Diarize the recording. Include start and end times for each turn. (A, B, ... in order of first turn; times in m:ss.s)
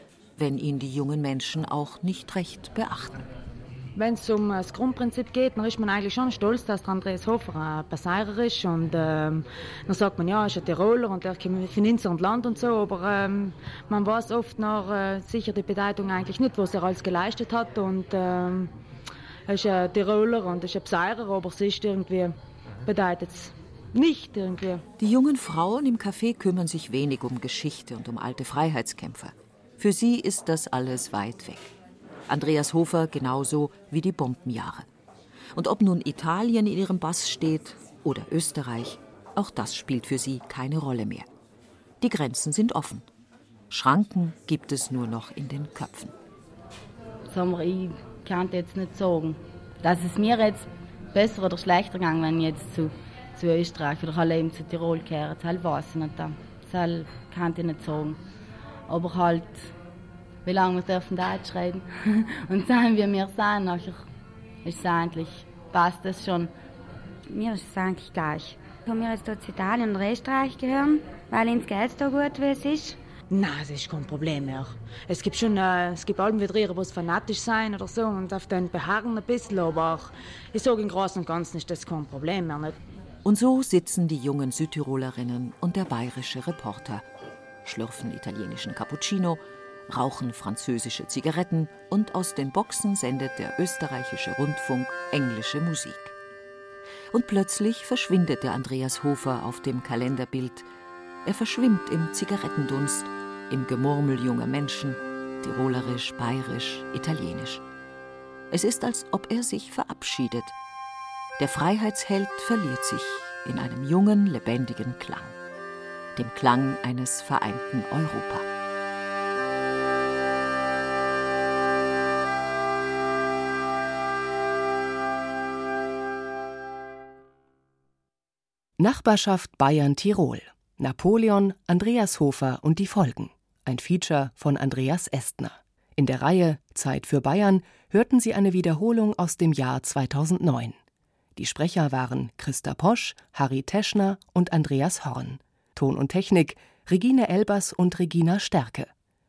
0:00.4-0:03.3 A
0:04.0-0:18.7 B
0:19.5-0:22.4 B
0:22.9-0:24.8 B
0:25.0-0:31.7 A
0:32.3-0:34.9 A
0:35.6-0:41.3 A
0:42.0-0:43.1 A
0:43.7-0:46.1 A
0:47.3-0:58.2 C
0:58.9-0:59.7 C
1:00.4-1:04.0 C
1:04.6-1:06.5 C
1:07.3-1:13.0 D
1:13.3-1:22.8 B
1:23.2-1:27.0 A
1:27.6-1:36.1 A
1:37.1-1:40.7 A
1:41.2-1:47.6 A
1:48.5-1:50.6 A
1:51.4-1:55.4 A
1:56.2-1:58.4 A
2:08.8-2:20.8 E
2:21.4-2:28.9 E